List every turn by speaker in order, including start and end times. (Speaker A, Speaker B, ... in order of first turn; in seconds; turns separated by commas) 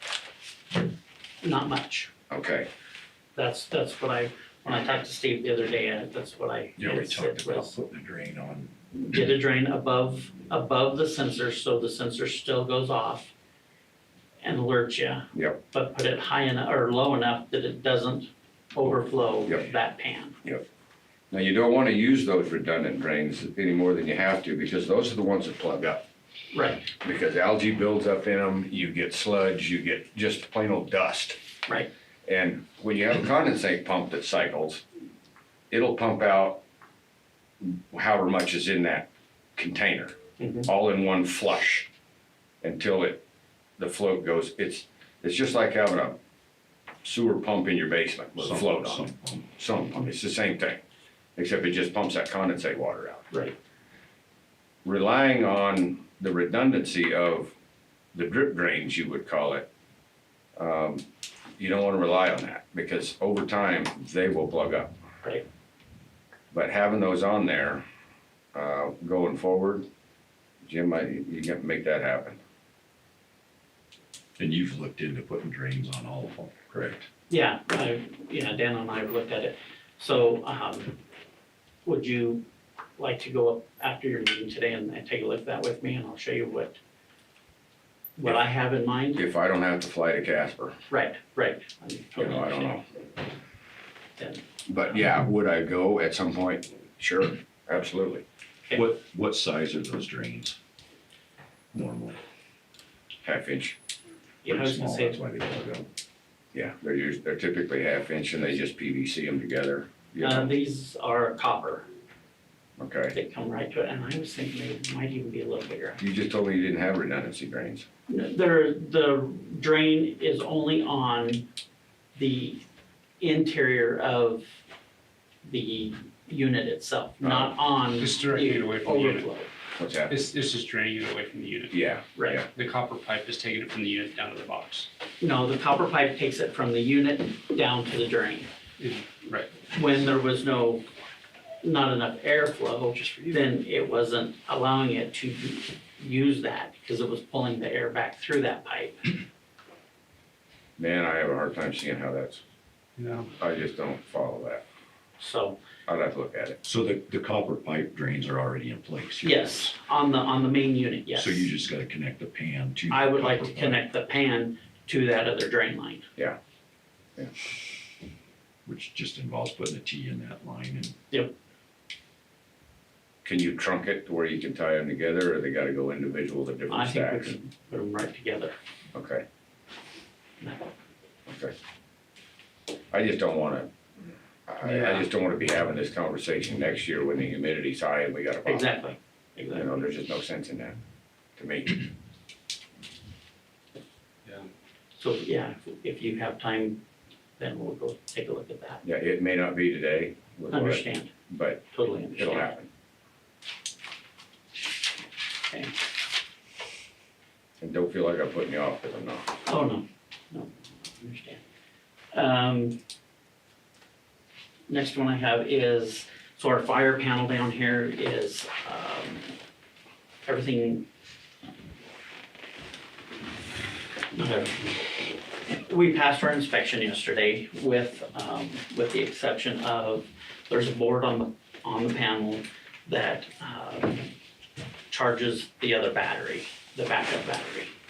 Speaker A: 1.4-2.1, Speaker B: 2.3-2.7, Speaker A: 3.4-7.8, Speaker C: 6.8-8.7, Speaker A: 8.9-13.3, Speaker A: 14.4-20.4, Speaker B: 15.3-15.6, Speaker B: 21.3-26.0, Speaker A: 26.5-26.9, Speaker B: 27.0-31.4, Speaker B: 32.3-34.8, Speaker B: 35.7-36.6, Speaker B: 37.6-41.9, Speaker A: 40.4-40.7, Speaker B: 42.6-43.2, Speaker B: 43.8-46.2, Speaker B: 47.0-50.8, Speaker C: 48.4-49.5, Speaker B: 51.4-53.3, Speaker B: 54.9-57.5, Speaker B: 58.1-59.7, Speaker B: 60.6-61.0, Speaker B: 61.6-64.9, Speaker B: 66.5-67.8, Speaker B: 68.5-69.9, Speaker B: 70.6-72.4, Speaker C: 74.4-77.1, Speaker A: 77.3-81.0, Speaker A: 81.8-82.4, Speaker A: 83.0-86.8, Speaker A: 88.2-89.2, Speaker B: 89.2-90.8, Speaker A: 90.9-92.8, Speaker B: 92.2-92.8, Speaker A: 94.2-94.4, Speaker B: 94.7-98.2, Speaker C: 98.7-100.6, Speaker C: 101.7-102.2, Speaker B: 103.2-103.8, Speaker A: 104.4-105.2, Speaker C: 104.5-105.9, Speaker B: 106.5-110.5, Speaker A: 110.2-111.9, Speaker B: 112.8-113.2, Speaker A: 113.1-116.0, Speaker B: 116.0-117.9, Speaker A: 118.1-121.5, Speaker A: 122.2-122.6, Speaker A: 123.2-124.5, Speaker A: 125.4-129.5, Speaker B: 127.2-127.5, Speaker D: 128.0-129.2, Speaker B: 129.8-130.2, Speaker D: 130.1-131.8, Speaker B: 131.7-132.4, Speaker A: 132.2-132.4, Speaker D: 132.4-134.9, Speaker A: 135.2-138.5, Speaker D: 138.8-139.5, Speaker A: 139.7-140.8, Speaker A: 141.6-149.2, Speaker B: 150.8-152.4, Speaker D: 153.0-153.3, Speaker B: 153.4-154.6, Speaker A: 155.2-155.6, Speaker B: 155.9-156.6, Speaker C: 156.6-159.7, Speaker A: 159.2-161.5, Speaker C: 161.1-163.8, Speaker A: 162.9-166.1, Speaker C: 168.7-171.0, Speaker B: 173.2-177.3, Speaker A: 176.7-178.6, Speaker B: 178.9-179.2, Speaker A: 180.4-180.7, Speaker B: 181.3-181.5, Speaker B: 182.9-183.7, Speaker B: 184.5-188.7, Speaker D: 184.6-185.1, Speaker A: 188.4-189.9, Speaker B: 189.5-190.8, Speaker B: 191.4-191.9, Speaker A: 195.0-196.8, Speaker A: 197.4-198.8, Speaker B: 198.8-202.7, Speaker A: 200.5-201.1, Speaker A: 201.7-202.6, Speaker B: 207.6-209.3, Speaker A: 209.5-211.4, Speaker A: 212.1-212.8, Speaker A: 214.7-219.3, Speaker A: 220.3-220.8, Speaker A: 224.1-224.8, Speaker A: 225.5-234.1, Speaker A: 234.9-237.7